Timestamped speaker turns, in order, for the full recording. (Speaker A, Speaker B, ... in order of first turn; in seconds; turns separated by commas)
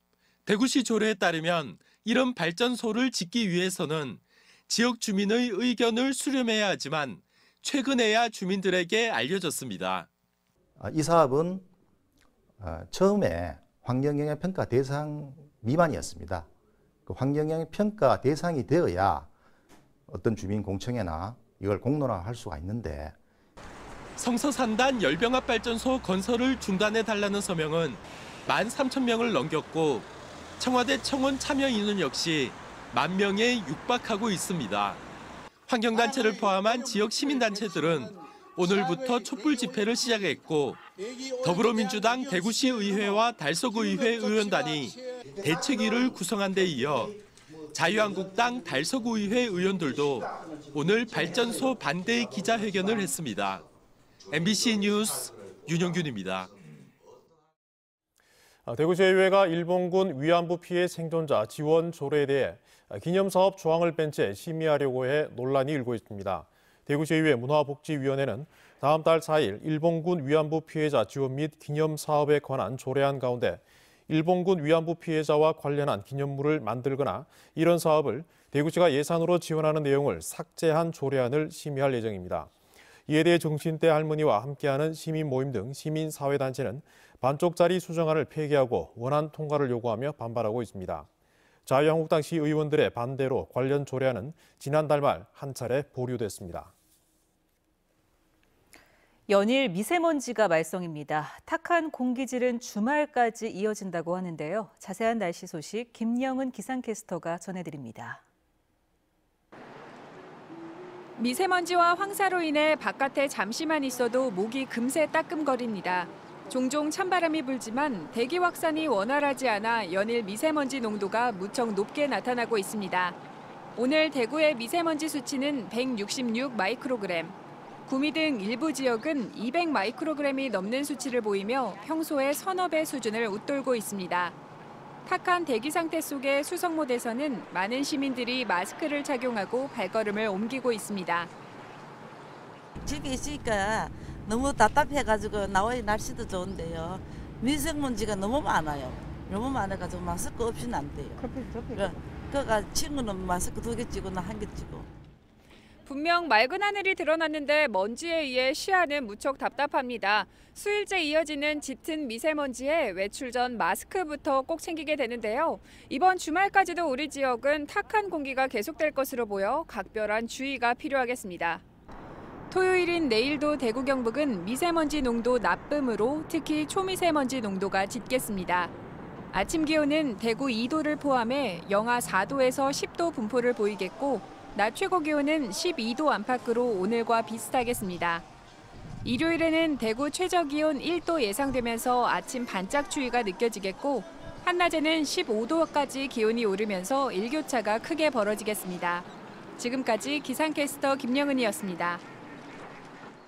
Speaker A: 0.5-10.1, Speaker B: 10.8-11.7, Speaker B: 12.6-16.5, Speaker B: 17.1-19.3, Speaker B: 20.1-23.1, Speaker A: 24.2-35.0, Speaker A: 35.7-40.8, Speaker A: 41.4-47.2, Speaker A: 47.7-53.6, Speaker A: 54.3-56.5, Speaker C: 58.7-82.5, Speaker C: 83.1-91.1, Speaker C: 91.7-96.7, Speaker D: 99.3-108.2, Speaker E: 111.2-123.2, Speaker E: 123.8-127.3, Speaker E: 127.9-134.3, Speaker E: 135.1-141.3, Speaker F: 142.8-154.9, Speaker E: 155.8-171.6, Speaker E: 172.5-178.7, Speaker E: 179.3-188.2, Speaker E: 189.0-202.0